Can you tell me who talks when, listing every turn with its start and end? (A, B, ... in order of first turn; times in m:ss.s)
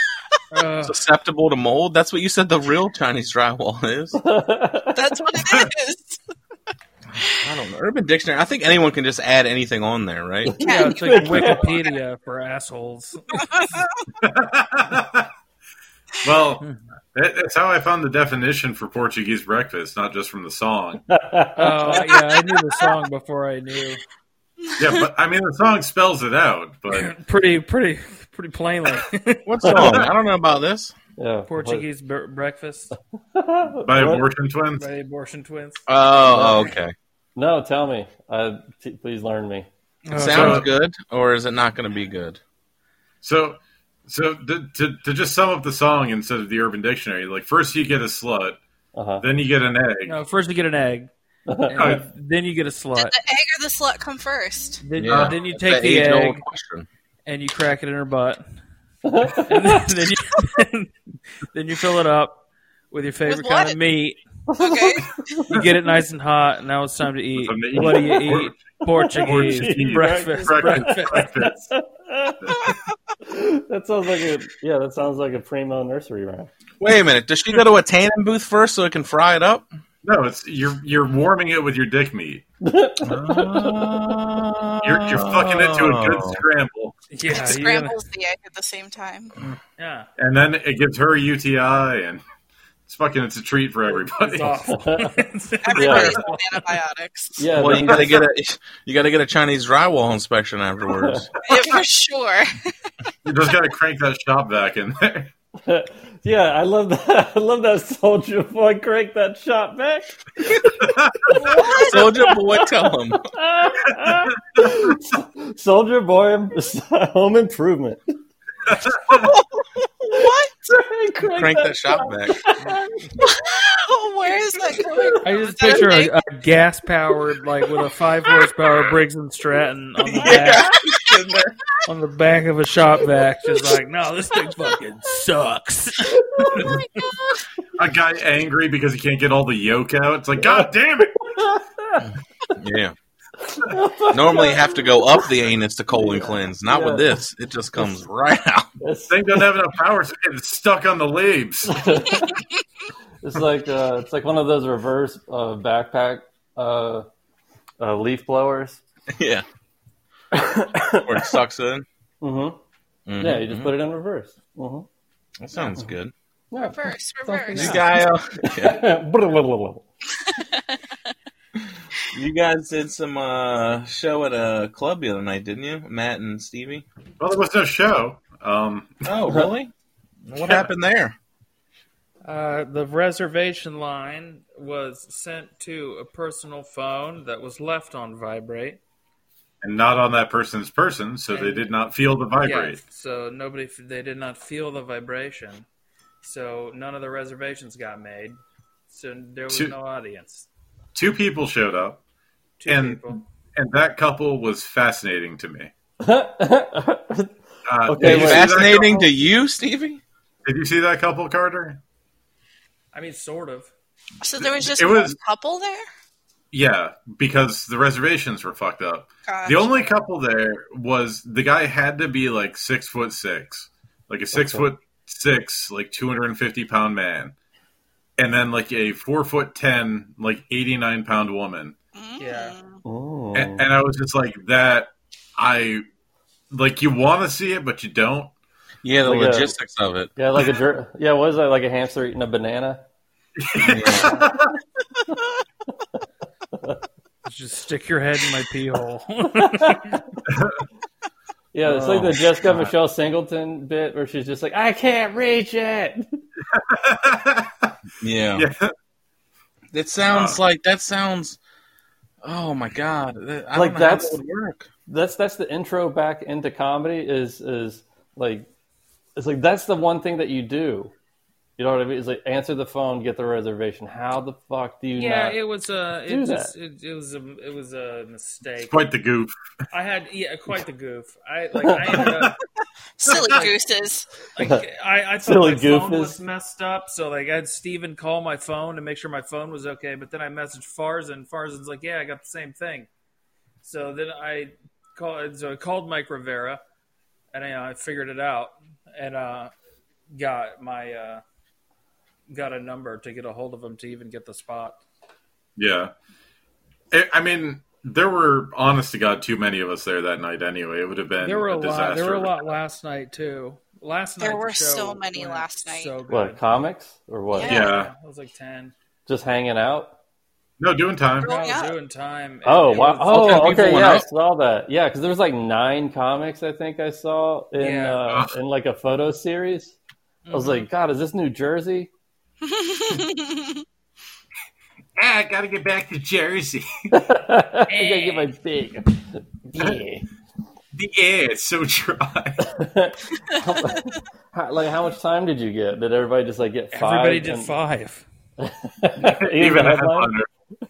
0:00.5-0:01.0 A
0:00.8-0:04.2 B
0:04.2-0:05.2 C
0:04.9-0:06.2 D
0:07.2-0:10.6 B
0:10.4-0:11.7 C
0:10.6-0:11.9 D
0:10.6-0:13.4 A
0:13.3-0:14.1 D
0:14.2-0:15.3 E
0:16.2-0:21.1 E
0:21.1-0:22.1 C
0:21.6-0:24.0 A
0:24.7-0:25.0 D
0:24.8-0:27.1 E
0:26.9-0:30.0 A
0:29.4-0:30.9 B
0:31.2-0:31.8 C
0:31.5-0:32.9 A
0:33.3-0:34.2 C
0:33.8-0:34.9 E
0:34.8-0:35.9 A
0:35.9-0:36.9 B
0:36.3-0:36.7 C
0:37.4-0:39.7 C
0:40.0-0:40.6 A
0:40.1-0:42.4 B
0:40.2-0:40.7 E
0:43.2-0:48.6 E
0:48.9-0:49.2 C
0:49.2-0:50.2 E
0:50.0-0:51.1 A
0:51.5-0:52.0 C
0:51.7-0:53.1 A
0:51.7-0:52.0 E
0:53.0-0:54.8 D
0:54.8-0:56.4 A
0:55.0-0:56.9 B
0:55.0-0:55.4 E
0:57.2-0:58.4 A
0:59.0-0:59.8 C
0:59.4-1:04.2 A
1:03.3-1:03.8 D
1:04.5-1:05.6 C
1:04.6-1:05.4 D
1:05.5-1:11.3 A
1:07.3-1:11.7 E
1:07.8-1:08.1 C
1:08.9-1:12.6 C
1:12.5-1:12.7 E
1:13.2-1:16.5 C
1:16.8-1:19.7 B
1:20.0-1:22.4 E
1:22.6-1:23.9 C
1:23.0-1:26.4 B
1:24.8-1:26.9 E
1:27.1-1:28.0 A
1:27.3-1:29.4 D
1:29.8-1:30.1 A
1:30.2-1:32.2 E
1:32.8-1:34.6 E
1:33.9-1:36.8 A
1:34.6-1:35.1 C
1:35.6-1:38.1 D
1:35.7-1:36.2 C
1:37.4-1:38.2 C
1:37.5-1:41.3 B
1:41.0-1:41.2 C
1:41.4-1:42.7 D
1:43.2-1:45.3 E
1:45.6-1:52.6 C
1:50.8-1:51.4 E
1:51.3-1:52.1 D
1:51.7-1:53.2 B
1:53.2-1:58.1 C
1:54.0-1:54.9 E
1:58.7-1:59.3 E
1:59.1-1:59.4 D
2:00.0-2:03.2 C
2:00.1-2:00.5 D
2:01.2-2:02.4 B
2:03.2-2:06.1 D
2:04.7-2:05.3 C
2:05.2-2:10.7 A
2:10.0-2:11.5 B
2:11.8-2:16.2 A
2:16.1-2:16.7 C
2:16.6-2:17.4 D
2:17.8-2:21.3 E
2:20.4-2:22.1 C
2:22.6-2:22.9 B
2:23.5-2:24.7 C
2:24.1-2:28.7 B
2:25.9-2:27.1 C
2:28.8-2:29.5 C
2:29.1-2:32.2 E
2:31.7-2:32.4 C
2:33.2-2:37.0 C
2:37.8-2:38.8 C
2:39.1-2:39.4 B
2:40.3-2:41.1 C
2:40.9-2:41.8 B
2:42.2-2:42.6 C
2:43.0-2:43.7 B
2:43.2-2:44.8 C
2:45.4-2:46.1 B
2:46.5-2:49.8 C
2:46.6-2:47.8 D
2:47.5-2:48.8 B
2:50.2-2:50.9 D
2:52.1-2:56.8 B
2:57.2-2:59.1 E
2:59.0-2:59.7 B
3:00.3-3:01.2 B
3:02.2-3:08.8 A
3:09.6-3:12.8 E
3:11.3-3:11.7 A
3:12.4-3:15.6 A
3:16.2-3:18.4 A
3:18.9-3:20.5 A
3:19.5-3:19.7 E
3:20.9-3:22.0 E
3:22.6-3:23.2 A
3:22.7-3:25.7 E
3:26.0-3:27.3 C
3:27.6-3:29.1 E
3:27.8-3:28.6 C
3:28.0-3:30.0 B
3:30.4-3:31.8 E
3:32.9-3:33.7 A
3:34.2-3:35.8 D
3:34.4-3:35.2 E
3:36.5-3:47.3 E
3:39.2-3:39.8 D
3:44.3-3:44.6 C
3:48.2-3:51.8 E
3:51.9-3:52.8 D
3:52.2-3:52.5 A
3:52.8-3:53.7 C
3:53.3-3:55.8 E
3:56.5-3:58.3 E
3:58.8-4:00.1 B
3:59.0-3:59.5 C
4:00.2-4:02.8 C
4:03.4-4:04.6 E
4:03.6-4:04.2 B
4:07.2-4:10.0 A
4:09.4-4:10.0 C
4:10.2-4:10.6 E
4:11.5-4:16.1 C
4:11.6-4:12.7 B
4:16.5-4:17.7 E
4:18.0-4:18.4 B
4:18.3-4:18.7 E
4:19.7-4:21.4 B
4:20.1-4:20.4 E
4:22.2-4:24.7 B
4:23.5-4:24.2 C
4:24.9-4:28.5 C
4:29.2-4:30.9 C
4:31.6-4:35.4 C
4:35.0-4:38.7 A
4:36.1-4:36.5 C
4:38.6-4:39.3 E
4:39.7-4:42.4 A
4:41.6-4:42.0 C
4:42.0-4:42.4 E
4:43.0-4:44.1 D
4:43.1-4:43.6 A
4:44.3-4:52.9 A
4:45.2-4:46.2 C
4:53.6-4:56.6 A
4:57.3-4:59.5 A
5:00.1-5:01.2 A
5:02.3-5:04.8 A
5:05.6-5:05.9 E
5:06.9-5:12.4 E
5:11.2-5:16.5 A
5:14.2-5:15.9 D
5:16.1-5:17.6 C
5:17.3-5:17.7 D
5:17.4-5:18.7 A
5:17.4-5:17.9 E
5:19.1-5:19.9 C
5:20.6-5:21.3 E
5:21.2-5:21.7 D
5:21.2-5:23.8 A
5:22.4-5:29.8 C
5:23.1-5:24.1 B
5:27.6-5:28.0 A
5:28.1-5:28.3 E
5:30.2-5:30.6 A
5:30.3-5:31.9 C
5:32.4-5:33.6 D
5:35.0-5:36.7 E
5:36.9-5:40.1 C
5:37.7-5:38.3 A
5:40.7-5:42.5 E
5:42.4-5:47.5 C
5:46.7-5:48.0 A
5:48.4-5:50.1 C
5:49.0-5:50.3 E